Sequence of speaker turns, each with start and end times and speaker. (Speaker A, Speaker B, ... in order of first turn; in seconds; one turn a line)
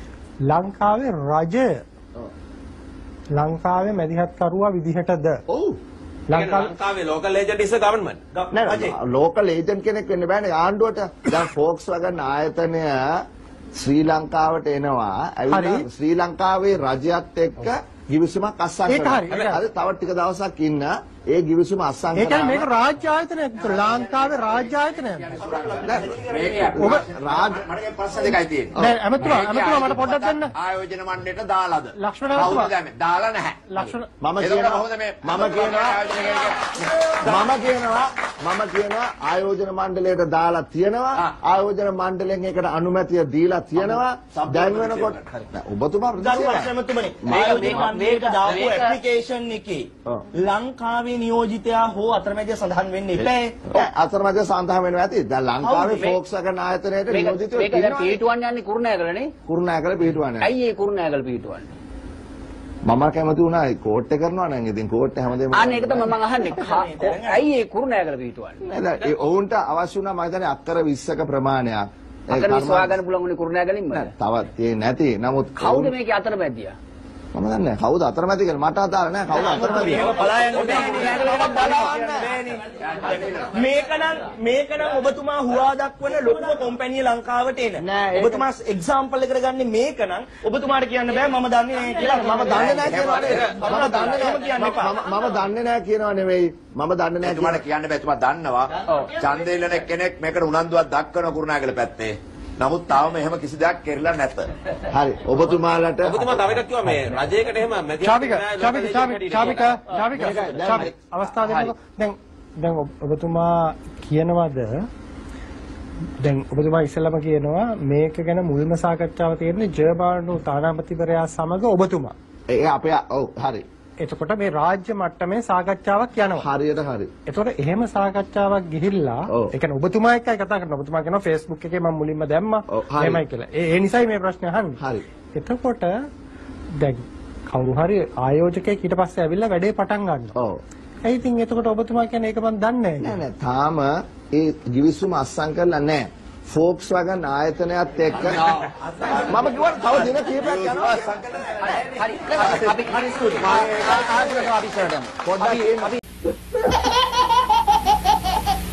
Speaker A: 0.5-1.8
Speaker A: 3.3-5.4
Speaker B: 5.5-5.8
Speaker A: 6.3-6.7
Speaker C: 6.3-8.2
Speaker D: 8.3-8.9
Speaker B: 8.5-13.2
Speaker B: 13.7-22.7
Speaker A: 15.5-15.9
Speaker A: 18.9-19.6
Speaker A: 22.1-25.4
Speaker E: 23.6-33.6
Speaker D: 25.6-26.6
Speaker B: 25.8-27.6
Speaker A: 26.7-27.0
Speaker A: 28.8-30.5
Speaker A: 31.9-32.7
Speaker A: 33.7-34.1
Speaker B: 34.2-36.0
Speaker E: 34.4-36.8
Speaker D: 37.0-37.5
Speaker B: 37.2-46.7
Speaker E: 43.8-45.4
Speaker D: 46.2-53.7
Speaker B: 47.2-47.8
Speaker F: 47.3-49.0
Speaker B: 53.7-58.2
Speaker D: 55.6-56.1
Speaker F: 55.9-56.2
Speaker F: 57.1-59.3
Speaker B: 59.4-60.5
Speaker F: 60.4-61.7
Speaker B: 62.8-66.2
Speaker F: 65.5-68.6
Speaker D: 66.3-67.4
Speaker B: 68.7-73.0
Speaker F: 72.3-74.1
Speaker B: 73.9-75.9
Speaker F: 75.6-76.7
Speaker B: 77.3-80.1
Speaker F: 79.3-80.2
Speaker D: 79.5-82.6
Speaker B: 80.6-82.3
Speaker E: 80.6-81.5
Speaker F: 81.7-82.0
Speaker E: 82.7-83.5
Speaker D: 83.5-95.0
Speaker B: 87.8-88.5
Speaker B: 92.1-97.6
Speaker E: 92.5-94.2
Speaker E: 97.2-104.5
Speaker B: 104.9-106.6
Speaker C: 106.0-109.9
Speaker A: 108.0-114.8
Speaker B: 110.2-110.9
Speaker E: 110.2-110.6
Speaker E: 111.4-111.7
Speaker A: 116.2-122.1
Speaker B: 122.5-123.6
Speaker A: 124.0-126.5
Speaker B: 126.3-127.1
Speaker A: 127.3-134.8
Speaker B: 132.7-133.2
Speaker B: 134.8-135.0
Speaker A: 135.3-136.0
Speaker A: 136.8-140.3
Speaker B: 140.3-140.6
Speaker A: 141.0-143.2
Speaker B: 143.0-148.5
Speaker E: 148.2-154.7
Speaker B: 149.1-151.1
Speaker F: 151.6-156.0
Speaker B: 155.2-156.0